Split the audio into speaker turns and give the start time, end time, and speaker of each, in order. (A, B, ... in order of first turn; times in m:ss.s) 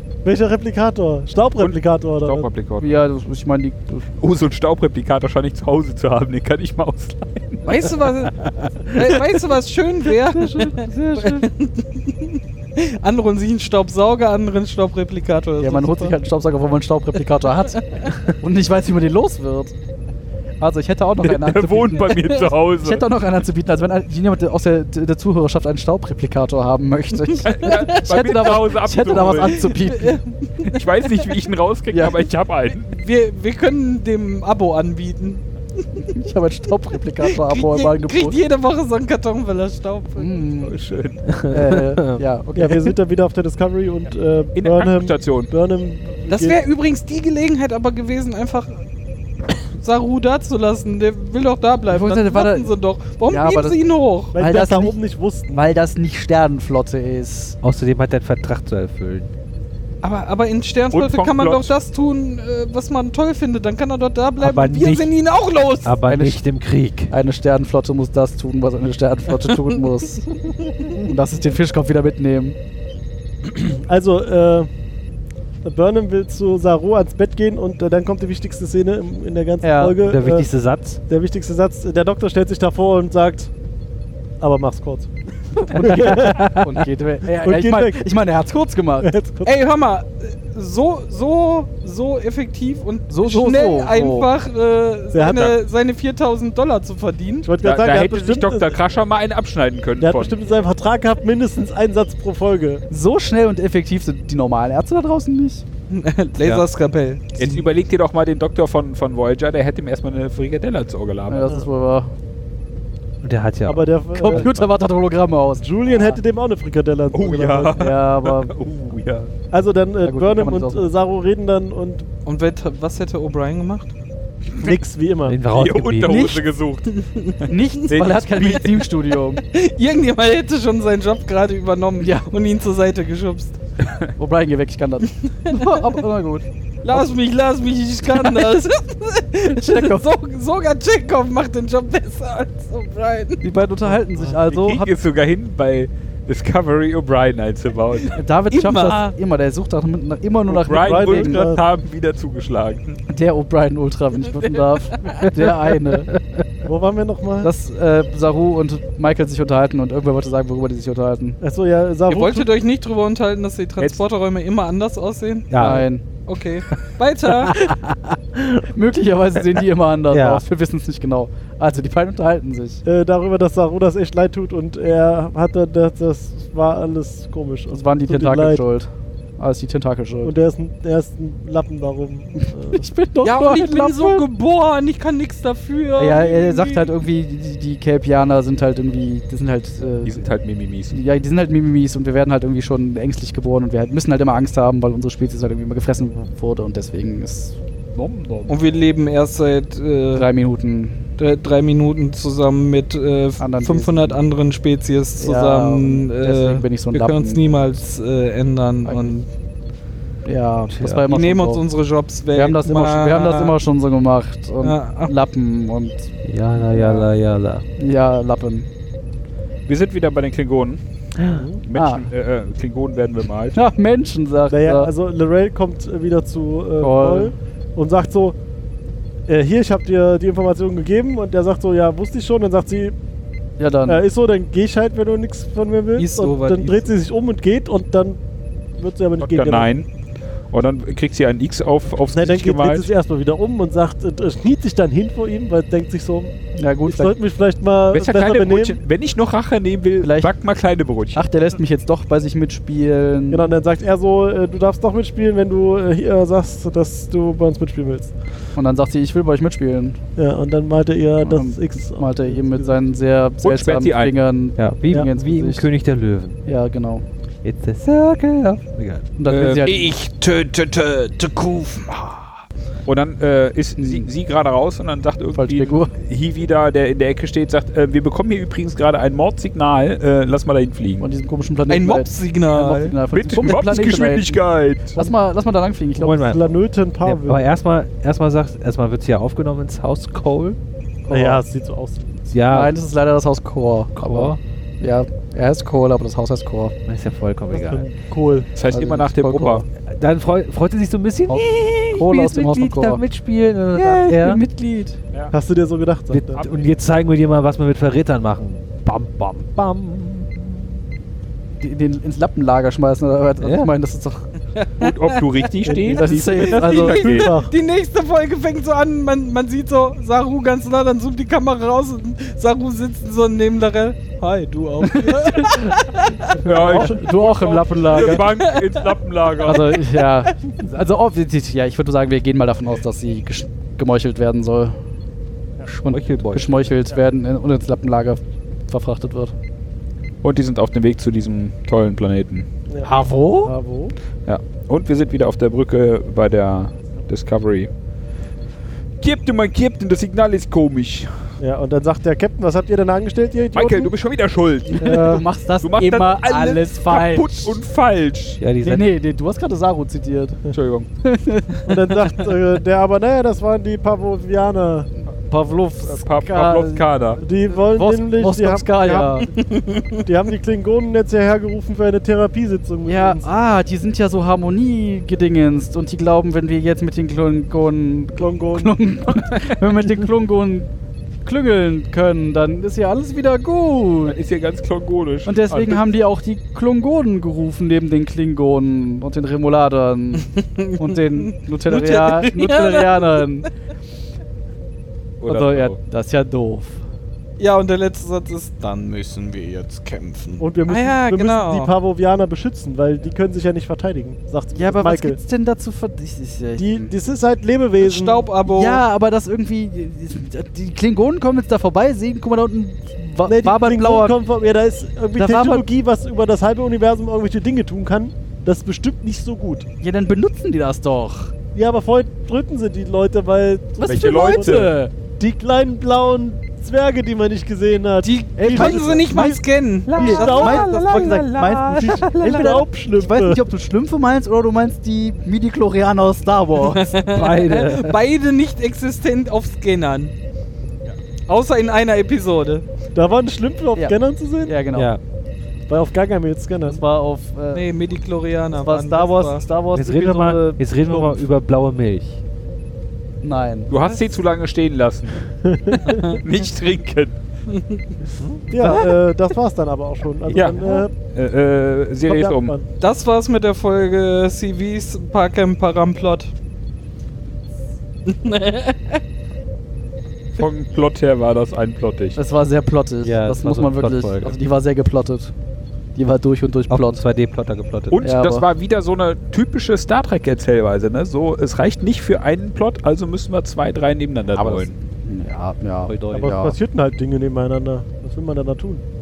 0:00.2-0:02.5 A
0:01.6-0:03.0 B
0:02.8-0:04.1 C
0:04.2-0:07.7 B
0:07.6-0:16.2 D
0:10.4-0:11.5 C
0:15.6-0:19.7 C
0:17.7-0:18.1 D
0:20.6-0:30.2 C
0:21.2-0:23.0 B
0:27.4-0:29.7 B
0:27.7-0:28.0 D
0:29.4-0:30.8 D
0:30.7-0:32.9 B
0:31.9-0:32.2 C
0:32.8-0:36.0 D
0:36.0-0:38.4 C
0:37.2-0:40.4 D
0:40.2-0:40.8 C
0:40.6-0:41.2 B
0:41.3-0:42.2 E
0:41.5-0:43.0 C
0:42.6-0:46.6 A
0:44.6-0:45.5 B
0:46.3-0:48.8 D
0:49.7-0:54.4 D
0:51.9-0:52.7 C
0:53.3-0:53.8 C
0:54.3-0:55.6 A
0:54.4-0:55.0 C
0:55.5-0:57.6 C
0:57.6-0:59.3 E
1:00.0-1:06.0 D
1:00.9-1:01.7 B
1:04.4-1:05.1 E
1:05.8-1:07.1 E
1:06.1-1:06.4 C
1:07.1-1:10.3 C
1:11.0-1:12.6 C
1:13.6-1:14.7 A
1:15.6-1:20.5 A
1:19.6-1:20.0 C
1:20.0-1:21.0 E
1:21.1-1:23.5 A
1:24.4-1:26.5 A
1:25.6-1:29.1 C
1:26.2-1:26.6 E
1:27.3-1:28.0 A
1:29.0-1:29.5 A
1:29.4-1:37.5 D
1:33.1-1:34.3 C
1:35.1-1:35.5 A
1:37.4-1:38.8 A
1:37.6-1:40.4 B
1:40.0-1:42.8 A
1:42.9-1:45.6 C
1:45.9-1:47.4 D
1:47.4-1:51.6 B
1:51.3-1:52.1 C
1:53.2-1:54.6 E
1:53.6-1:54.6 A
1:54.1-1:56.2 C
1:55.6-1:57.8 A
1:57.1-1:59.3 B
1:57.8-1:58.6 C
1:59.5-2:02.1 A
2:00.0-2:00.9 C
2:02.2-2:03.9 D
2:04.6-2:05.4 A
2:05.3-2:06.3 E
2:05.5-2:08.8 B
2:06.0-2:06.4 C
2:06.9-2:07.4 D
2:07.5-2:09.4 C
2:09.4-2:13.6 D
2:12.0-2:12.3 C
2:13.8-2:14.1 B
2:14.2-2:17.1 C
2:15.5-2:15.8 D
2:16.8-2:23.4 D
2:18.1-2:18.6 C
2:19.5-2:20.1 C
2:23.4-2:24.9 C
2:24.4-2:28.2 B
2:28.1-2:31.5 C
2:28.5-2:29.1 D
2:30.5-2:33.0 B
2:30.7-2:31.6 A
2:33.1-2:36.1 C
2:34.4-2:35.1 D
2:35.3-2:35.5 E
2:36.1-2:36.4 E
2:36.6-2:37.5 A
2:37.4-2:41.4 C
2:41.4-2:42.5 A
2:42.1-2:45.5 D
2:45.5-2:45.9 E
2:45.6-2:46.0 C
2:46.3-2:47.6 D
2:47.5-2:48.6 E
2:48.7-2:52.8 C
2:50.1-2:50.4 E
2:52.8-2:58.6 A
2:57.7-3:00.3 C
3:00.2-3:02.9 A
3:02.7-3:04.3 C
3:03.2-3:06.9 D
3:06.0-3:10.2 C
3:10.0-3:11.0 B
3:10.9-3:17.6 C
3:17.9-3:18.6 B
3:18.5-3:20.3 D
3:20.1-3:21.1 C
3:21.2-3:29.3 D
3:23.4-3:24.2 C
3:25.2-3:27.4 C
3:28.8-3:29.2 C
3:30.2-3:31.6 C
3:30.7-3:31.1 E
3:31.1-3:33.6 D
3:32.3-3:36.1 C
3:34.6-3:35.1 D
3:36.2-3:37.6 E
3:36.8-3:37.0 C
3:37.8-3:38.7 C
3:39.7-3:40.8 B
3:41.3-3:41.6 A
3:41.6-3:43.6 B
3:41.7-3:42.1 C
3:43.5-3:44.9 C
3:44.5-3:48.4 A
3:46.8-3:47.3 C
3:49.3-3:53.0 A
3:53.6-3:54.0 C
3:53.9-3:58.2 A
3:56.0-3:56.9 D
3:58.8-3:59.7 A
3:59.2-3:59.9 B
4:00.5-4:02.9 B
4:02.1-4:06.4 A
4:06.6-4:07.1 C
4:06.9-4:08.8 A
4:07.9-4:11.2 B
4:10.0-4:10.3 C
4:11.1-4:13.5 C
4:13.3-4:18.1 A
4:18.6-4:20.0 C
4:20.2-4:22.8 A
4:21.2-4:25.7 C
4:23.4-4:24.1 B
4:24.6-4:26.4 E
4:26.5-4:27.0 C
4:27.4-4:29.1 E
4:29.2-4:29.9 C
4:29.3-4:30.0 B
4:29.7-4:32.2 D
4:32.9-4:41.1 B
4:33.8-4:34.1 C
4:35.3-4:35.9 C
4:41.0-4:44.4 C
4:41.7-4:43.0 D
4:43.1-4:45.0 B
4:44.9-4:46.3 C
4:46.0-4:46.4 E
4:46.2-4:47.4 A
4:47.0-4:51.4 E
4:51.1-4:52.3 A
4:52.3-4:52.8 E
4:52.5-4:56.7 C
4:54.0-4:54.4 E
4:56.9-4:57.9 E
4:57.5-4:58.5 A
4:58.6-4:59.6 B
4:58.7-4:59.6 C
4:59.9-5:04.4 E
5:01.3-5:03.0 C
5:03.7-5:05.0 C
5:05.3-5:06.4 A
5:06.1-5:10.6 E
5:06.4-5:06.7 B
5:11.6-5:14.3 C
5:13.4-5:13.7 E
5:14.6-5:15.3 D
5:14.8-5:17.3 B
5:15.6-5:17.5 A
5:15.9-5:17.1 C
5:16.4-5:26.4 D
5:24.8-5:25.7 C
5:26.4-5:29.8 B
5:26.5-5:27.0 A
5:26.5-5:28.3 C
5:28.2-5:28.9 D
5:29.4-5:34.8 C
5:35.7-5:39.3 C
5:35.8-5:36.6 E
5:40.2-5:42.5 B
5:42.8-5:43.5 E
5:43.4-5:44.0 A
5:44.3-5:47.7 B
5:49.0-5:51.3 B
5:51.4-5:53.9 A
5:53.5-5:58.4 B
5:54.7-5:57.6 C
5:54.8-5:55.2 A
5:58.4-5:58.9 E
5:58.6-6:00.4 C
6:00.5-6:00.9 B
6:01.0-6:01.8 C
6:01.6-6:04.9 A
6:05.3-6:09.3 C
6:05.8-6:07.2 B
6:07.2-6:09.3 A
6:09.4-6:10.0 D
6:10.0-6:13.3 A
6:12.8-6:20.7 C
6:18.2-6:18.7 A
6:21.2-6:24.2 C
6:24.1-6:25.8 B
6:25.3-6:33.5 C
6:30.2-6:33.2 D
6:35.2-6:35.8 B
6:35.3-6:36.8 C
6:37.4-6:41.7 D
6:40.4-6:45.2 A
6:44.5-6:46.9 C
6:46.6-6:48.3 A
6:47.8-6:48.8 D
6:48.4-6:54.2 C
6:53.2-6:59.7 A
6:55.2-6:55.6 C
6:59.8-7:01.3 C
7:01.5-7:09.4 A
7:03.8-7:04.9 C
7:03.8-7:04.7 B
7:08.0-7:10.9 D
7:08.4-7:09.4 C
7:09.9-7:12.6 E
7:09.9-7:13.4 A
7:09.9-7:16.9 C
7:16.6-7:20.1 D
7:17.1-7:18.0 E
7:21.3-7:22.6 D
7:23.0-7:24.6 A
7:23.8-7:24.9 C
7:24.7-7:25.0 E
7:25.7-7:26.8 A
7:26.7-7:27.7 C
7:27.5-7:29.5 D
7:28.6-7:31.1 C
7:29.7-7:32.2 E
7:33.2-7:33.8 C
7:33.7-7:35.3 B
7:35.4-7:36.2 A
7:35.9-7:36.2 D
7:36.1-7:37.2 B
7:37.5-7:38.0 D
7:38.2-7:38.5 E
7:38.5-7:40.9 A
7:38.6-7:38.9 C
7:40.3-7:42.5 B
7:42.0-7:42.7 A
7:42.8-7:46.3 D
7:48.0-7:49.0 D
7:50.4-7:52.2 B
7:52.2-7:55.3 C
7:53.0-7:54.4 E
7:56.0-7:57.0 C
7:56.7-7:58.0 E
7:57.9-8:04.7 B
7:58.0-7:58.5 C
8:04.4-8:06.6 C
8:05.9-8:06.4 E
8:06.1-8:08.8 A